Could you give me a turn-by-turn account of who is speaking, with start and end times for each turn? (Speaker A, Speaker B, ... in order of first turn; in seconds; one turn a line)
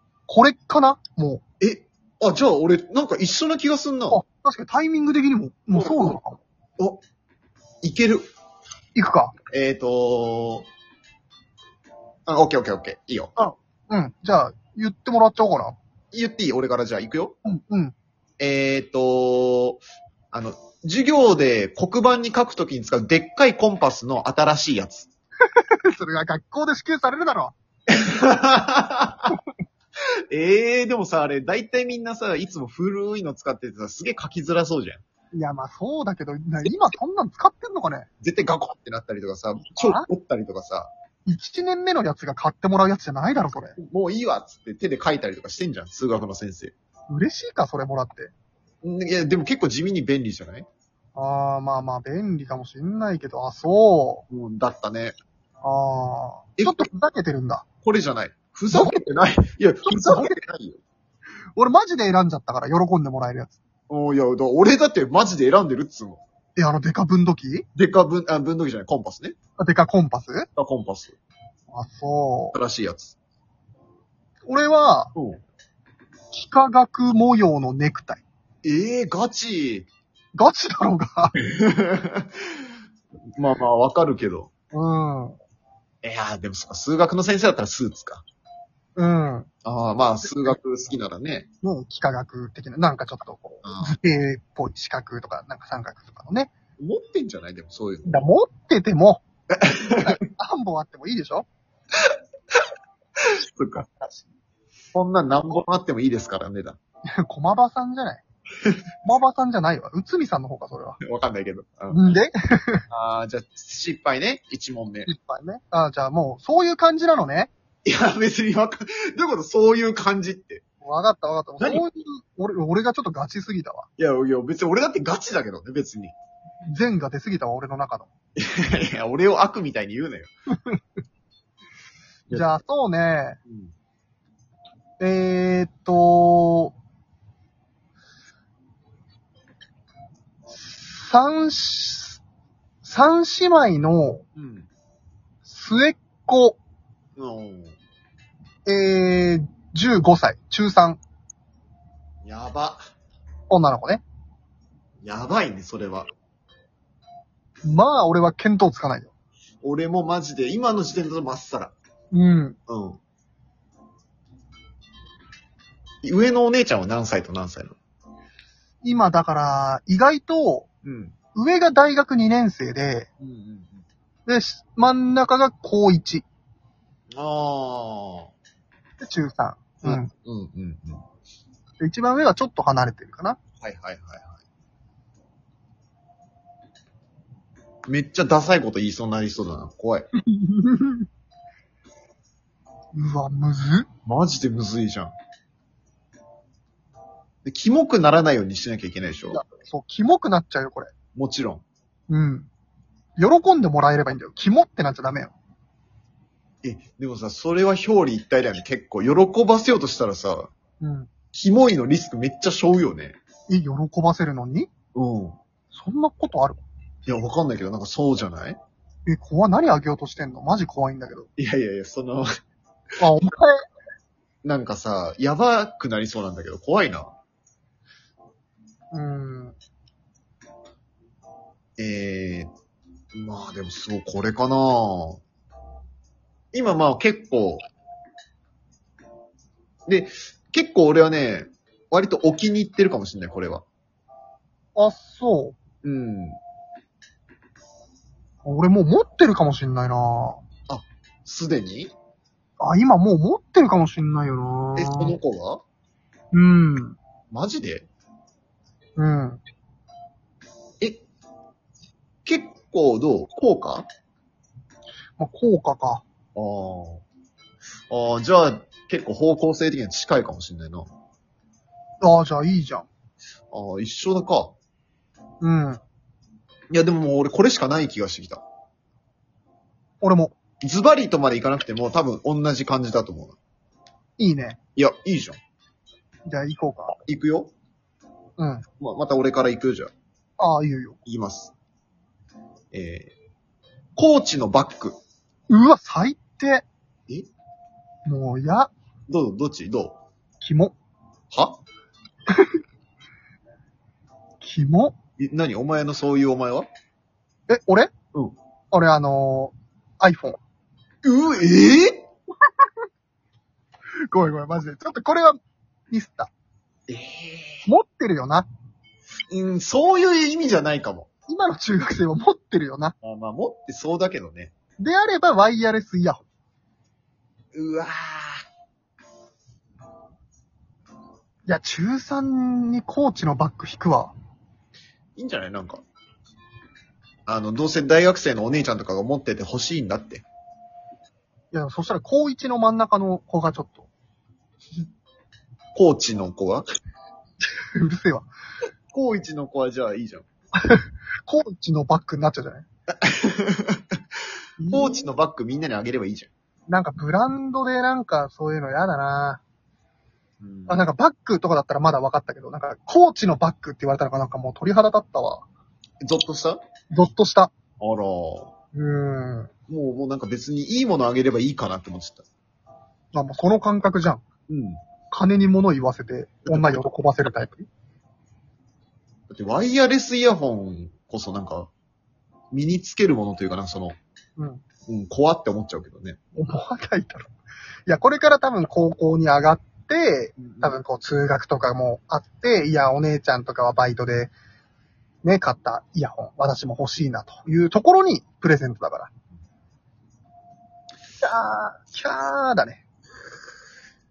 Speaker A: 0.3-1.4
Speaker B: 1.6-4.2
Speaker A: 4.1-6.4
Speaker B: 5.8-6.1
Speaker B: 7.8-8.2
Speaker A: 8.9-9.3
Speaker B: 9.5-10.7
Speaker B: 12.3-13.3
Speaker A: 13.4-15.8
Speaker B: 16.1-17.4
Speaker A: 17.4-17.9
Speaker B: 18.4-25.1
Speaker A: 25.5-27.5
Speaker B: 27.9-29.4
Speaker B: 30.3-35.0
Speaker A: 35.3-38.1
Speaker B: 38.2-40.9
Speaker A: 39.8-40.0
Speaker A: 41.2-43.8
Speaker B: 43.8-46.7
Speaker A: 47.1-48.3
Speaker B: 48.8-50.7
Speaker A: 51.1-54.2
Speaker B: 54.3-55.1
Speaker A: 55.6-57.6
Speaker B: 56.6-56.9
Speaker B: 57.8-60.8
Speaker A: 58.7-59.0
Speaker A: 59.9-60.4
Speaker A: 61.5-63.6
Speaker B: 63.9-66.2
Speaker A: 66.5-67.7
Speaker B: 67.8-69.3
Speaker A: 69.6-70.5
Speaker B: 70.6-71.2
Speaker A: 71.7-72.5
Speaker B: 72.5-73.2
Speaker A: 74.5-75.1
Speaker B: 75.1-75.4
Speaker A: 76.3-78.2
Speaker B: 78.6-79.9
Speaker A: 80.3-81.3
Speaker B: 81.4-82.5
Speaker B: 83.4-84.5
Speaker A: 84.7-85.4
Speaker B: 86.0-88.2
Speaker A: 89.0-89.5
Speaker B: 89.6-91.5
Speaker A: 90.2-90.5
Speaker A: 91.6-96.5
Speaker B: 93.6-93.9
Speaker B: 96.8-98.2
Speaker A: 98.0-99.2
Speaker B: 99.5-100.1
Speaker A: 100.0-101.5
Speaker B: 103.5-104.2
Speaker B: 104.9-106.8
Speaker A: 107.1-108.2
Speaker A: 109.0-111.0
Speaker B: 111.0-112.0
Speaker A: 111.9-112.8
Speaker B: 112.9-115.1
Speaker A: 115.0-117.5
Speaker B: 117.8-120.6
Speaker A: 120.8-123.9
Speaker B: 124.0-126.1
Speaker A: 126.7-128.1
Speaker B: 128.3-130.3
Speaker A: 132.3-133.4
Speaker B: 133.5-133.7
Speaker A: 135.0-136.7
Speaker A: 140.5-142.2
Speaker A: 142.8-144.2
Speaker B: 144.3-144.7
Speaker A: 145.4-146.6
Speaker B: 147.2-147.8
Speaker A: 148.7-151.0
Speaker B: 152.2-152.8
Speaker A: 153.5-154.0
Speaker B: 155.0-156.1
Speaker A: 157.6-159.1
Speaker B: 159.6-161.7
Speaker A: 162.1-162.6
Speaker B: 162.7-163.0
Speaker B: 166.0-167.8
Speaker A: 168.8-170.7
Speaker B: 170.8-171.1
Speaker A: 171.3-173.1
Speaker B: 173.2-173.8
Speaker A: 174.2-176.2
Speaker B: 177.1-178.3
Speaker A: 179.0-180.1
Speaker B: 179.8-181.0
Speaker A: 181.8-183.4
Speaker B: 183.6-184.4
Speaker B: 187.9-190.1
Speaker A: 190.2-191.1
Speaker A: 192.9-193.9
Speaker B: 194.1-195.1
Speaker B: 197.4-199.4
Speaker A: 199.3-200.9
Speaker B: 201.1-201.6
Speaker A: 202.1-202.5
Speaker A: 203.2-205.3
Speaker B: 206.6-210.5
Speaker A: 210.8-211.1
Speaker B: 211.3-213.2
Speaker A: 213.5-214.7
Speaker B: 214.9-215.4
Speaker A: 215.7-216.6
Speaker B: 217.1-218.6
Speaker A: 219.1-221.3
Speaker B: 221.4-222.3
Speaker A: 223.0-223.5
Speaker B: 224.4-227.1
Speaker A: 228.9-229.5
Speaker B: 231.8-232.5
Speaker B: 233.1-235.2
Speaker B: 236.5-237.6
Speaker B: 239.9-243.6
Speaker A: 244.7-245.6
Speaker B: 245.8-246.4
Speaker A: 248.4-250.4
Speaker B: 250.7-251.9
Speaker A: 252.6-255.2
Speaker B: 254.7-255.6
Speaker A: 256.3-257.0
Speaker B: 257.3-257.9
Speaker A: 259.0-259.4
Speaker B: 262.2-263.9
Speaker A: 265.2-266.0
Speaker B: 266.3-267.0
Speaker B: 267.9-270.9
Speaker A: 272.0-272.9
Speaker B: 273.5-274.5
Speaker A: 275.4-275.8
Speaker B: 276.7-278.4
Speaker A: 280.0-280.3
Speaker B: 280.6-283.4
Speaker A: 284.2-284.6
Speaker B: 284.8-285.4
Speaker A: 286.2-287.0
Speaker B: 287.1-287.5
Speaker A: 288.4-288.6
Speaker B: 288.8-289.9
Speaker A: 290.4-291.0
Speaker B: 291.0-291.5
Speaker B: 292.7-293.1
Speaker B: 293.9-294.9
Speaker A: 295.5-296.6
Speaker A: 298.1-298.7
Speaker B: 299.1-300.0
Speaker A: 300.4-300.7
Speaker B: 301.3-301.6
Speaker A: 304.4-304.9
Speaker B: 305.2-306.7
Speaker A: 307.5-307.9
Speaker A: 308.7-310.4
Speaker B: 311.0-312.0
Speaker A: 314.1-315.4
Speaker A: 315.9-316.3
Speaker B: 316.9-317.7
Speaker A: 317.6-318.5
Speaker B: 319.3-321.1
Speaker A: 321.3-322.9
Speaker B: 323.0-324.5
Speaker A: 324.8-326.2
Speaker B: 327.5-328.4
Speaker A: 331.4-334.1
Speaker B: 335.1-335.8
Speaker B: 337.2-340.2
Speaker A: 341.5-343.9
Speaker B: 345.7-346.6
Speaker A: 347.8-348.3
Speaker B: 348.9-350.2
Speaker A: 350.6-352.6
Speaker B: 353.0-353.9
Speaker A: 354.6-355.1
Speaker B: 354.7-356.3
Speaker A: 356.7-359.4
Speaker B: 360.4-360.9
Speaker A: 360.7-365.4
Speaker B: 366.0-366.6
Speaker A: 366.9-367.5
Speaker B: 367.8-368.5
Speaker A: 368.7-369.5
Speaker B: 369.7-372.2
Speaker A: 373.1-374.2
Speaker B: 374.5-374.8
Speaker A: 375.1-377.7
Speaker B: 376.4-376.8
Speaker B: 379.3-381.7
Speaker B: 382.5-383.9
Speaker A: 384.4-384.6
Speaker B: 384.9-386.2
Speaker A: 386.3-387.3
Speaker A: 387.9-394.3
Speaker B: 390.4-390.8
Speaker A: 395.2-399.1
Speaker A: 401.2-402.8